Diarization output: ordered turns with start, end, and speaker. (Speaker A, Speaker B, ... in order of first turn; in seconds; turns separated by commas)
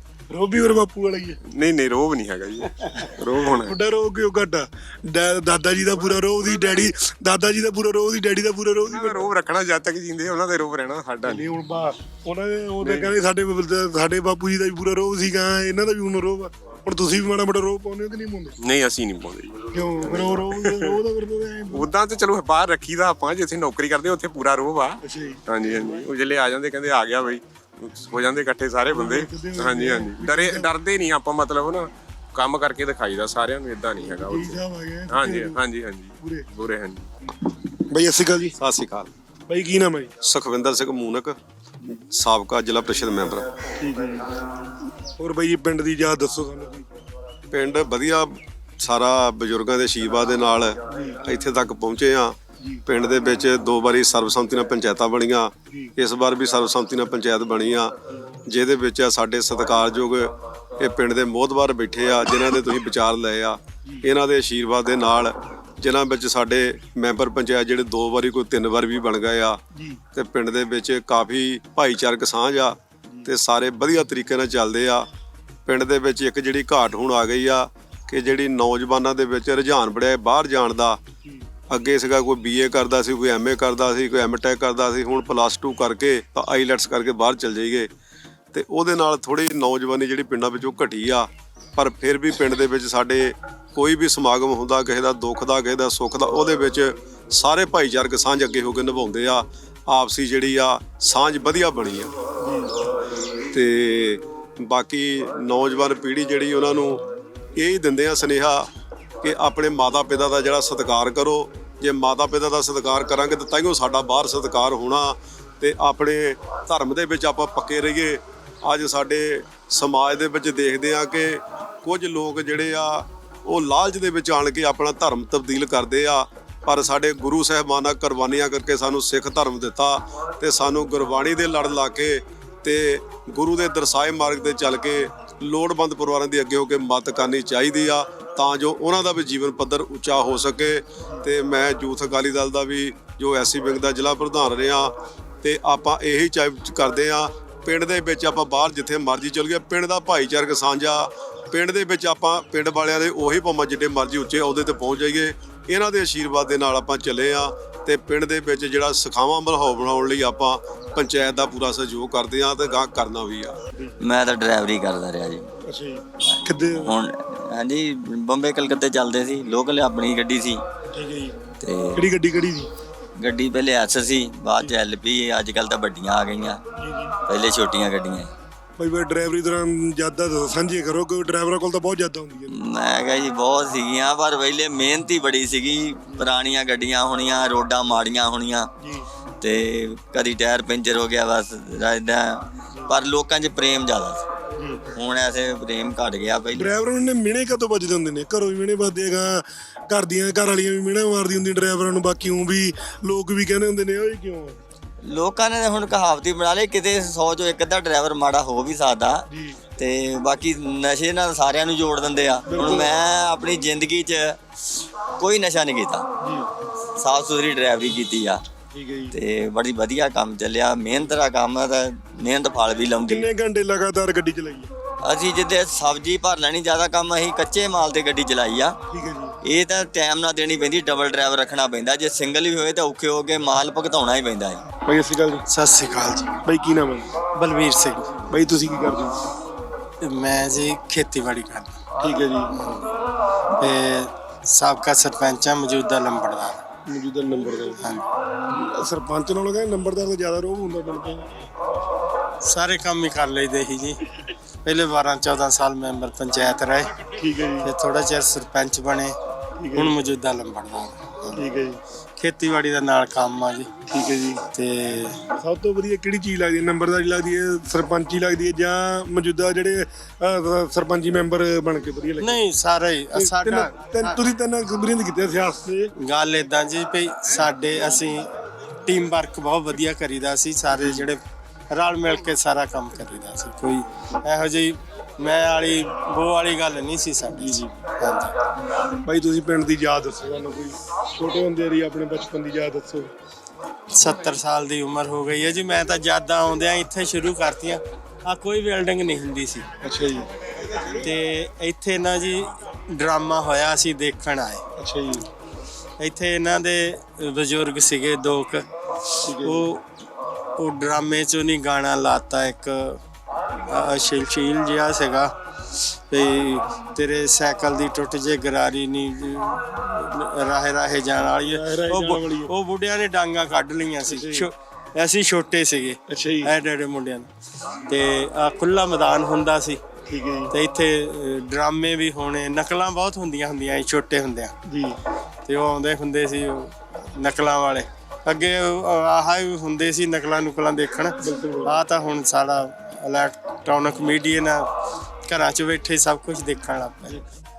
Speaker A: 0.3-1.4, Speaker B: 1.4-3.8, Speaker A: 2.9-9.2, Speaker B: 6.0-6.9, Speaker B: 8.8-11.5, Speaker A: 11.2-18.6, Speaker B: 12.8-13.2, Speaker B: 18.6-21.0, Speaker A: 19.7-21.9, Speaker B: 21.7-37.1, Speaker A: 25.0-26.1, Speaker A: 28.9-30.7, Speaker A: 34.0-35.6, Speaker A: 36.2-36.5, Speaker A: 37.9-38.5, Speaker C: 38.6-39.1, Speaker A: 39.5-40.1, Speaker C: 40.2-41.4, Speaker C: 42.0-43.5, Speaker A: 43.8-44.3, Speaker A: 45.2-46.9, Speaker C: 47.5-57.9, Speaker A: 50.9-51.2, Speaker C: 58.5-69.6, Speaker A: 69.7-70.0, Speaker C: 70.1-75.1, Speaker C: 75.7-81.0, Speaker C: 81.7-87.9, Speaker C: 88.5-102.1, Speaker A: 102.4-102.7, Speaker C: 103.5-107.0, Speaker C: 107.6-108.7, Speaker C: 109.2-163.6, Speaker D: 164.0-165.5, Speaker A: 165.6-167.0, Speaker D: 166.3-170.6, Speaker A: 170.9-171.4, Speaker D: 171.6-172.1, Speaker A: 171.9-172.7, Speaker D: 173.2-176.6, Speaker A: 176.8-177.2, Speaker D: 177.3-178.3, Speaker A: 178.8-182.6, Speaker D: 182.5-188.7, Speaker A: 188.8-189.1, Speaker D: 189.4-194.2, Speaker A: 194.6-194.9, Speaker D: 194.9-196.8, Speaker A: 196.5-204.6, Speaker D: 205.1-209.3, Speaker A: 209.3-209.6, Speaker D: 209.8-214.4, Speaker A: 212.5-212.9, Speaker D: 215.2-216.1, Speaker A: 216.2-216.5, Speaker D: 217.0-218.4, Speaker A: 218.7-219.2, Speaker D: 219.1-223.3, Speaker A: 223.1-224.7, Speaker D: 225.0-228.8, Speaker A: 228.9-229.4, Speaker D: 229.4-234.6, Speaker A: 234.7-235.4, Speaker E: 235.5-236.4, Speaker A: 236.4-237.1, Speaker E: 237.3-238.3, Speaker A: 238.3-239.2, Speaker E: 240.0-241.8, Speaker A: 242.0-242.6, Speaker E: 242.5-242.9, Speaker E: 243.6-246.6, Speaker A: 246.8-247.8, Speaker E: 247.8-248.0, Speaker A: 248.5-251.4, Speaker E: 252.4-254.0, Speaker E: 254.6-257.1, Speaker A: 257.1-257.7, Speaker E: 257.6-259.1, Speaker A: 259.6-259.9, Speaker E: 259.7-261.5, Speaker A: 261.3-261.8, Speaker E: 262.2-263.7, Speaker A: 263.9-264.4, Speaker E: 264.5-265.2, Speaker A: 265.4-272.4, Speaker E: 272.2-274.2, Speaker A: 273.1-275.9, Speaker E: 276.0-278.3, Speaker E: 278.9-281.2, Speaker A: 280.8-281.0, Speaker E: 281.7-288.3, Speaker A: 287.3-287.6, Speaker A: 289.0-293.1, Speaker E: 293.9-299.7, Speaker A: 299.8-300.8, Speaker E: 300.9-304.6, Speaker A: 304.8-305.3, Speaker E: 306.0-308.7, Speaker A: 309.2-309.7, Speaker E: 309.2-309.8, Speaker E: 310.6-313.0, Speaker E: 313.6-315.3, Speaker E: 316.1-327.3, Speaker A: 321.4-322.5, Speaker A: 324.1-324.5, Speaker A: 326.1-326.5, Speaker E: 327.9-329.8, Speaker A: 330.1-330.5, Speaker E: 330.5-334.5, Speaker A: 334.7-335.0, Speaker E: 335.5-344.6, Speaker A: 341.2-341.8, Speaker E: 345.3-347.2